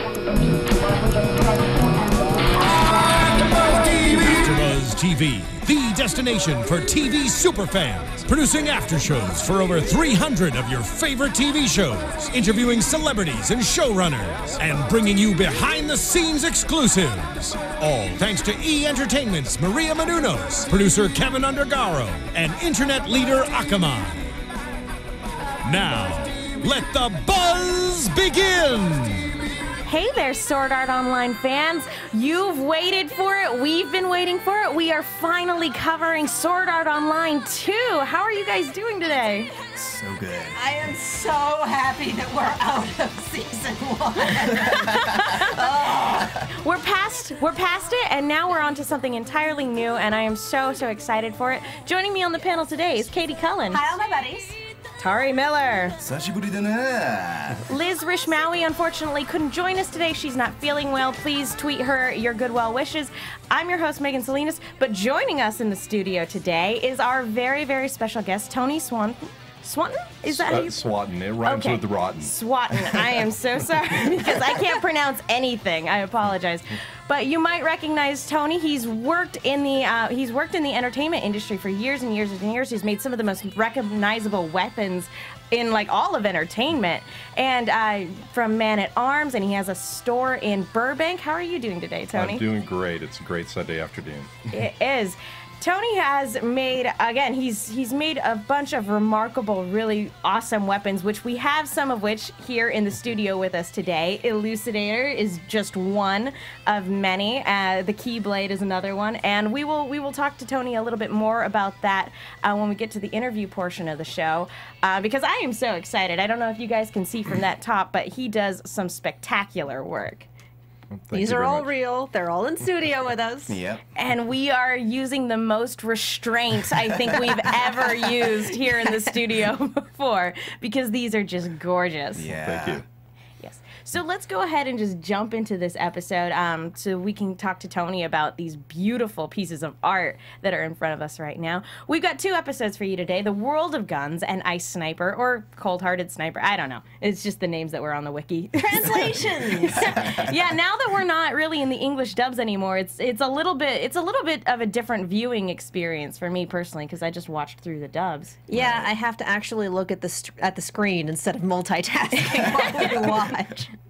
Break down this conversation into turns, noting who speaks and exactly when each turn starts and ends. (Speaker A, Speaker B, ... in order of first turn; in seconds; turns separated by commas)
Speaker A: 3.2-24.3, Speaker A: 25.6-29.3, Speaker B: 29.9-39.5, Speaker C: 39.7-40.6, Speaker D: 40.5-46.5, Speaker B: 44.8-45.6, Speaker B: 46.5-53.9, Speaker D: 53.7-54.6, Speaker B: 55.0-56.0, Speaker C: 56.0-57.7, Speaker B: 57.7-70.8, Speaker E: 70.3-72.3, Speaker B: 71.4-92.4, Speaker E: 92.1-94.3, Speaker B: 94.5-120.3, Speaker E: 120.9-121.7, Speaker D: 121.1-123.6, Speaker C: 123.5-123.8, Speaker B: 123.9-132.3, Speaker D: 128.7-129.1, Speaker C: 132.2-132.8, Speaker E: 132.3-132.8, Speaker B: 133.4-158.5, Speaker D: 148.6-150.1, Speaker C: 149.7-150.5, Speaker D: 158.5-163.7, Speaker C: 158.5-158.9, Speaker B: 162.3-163.2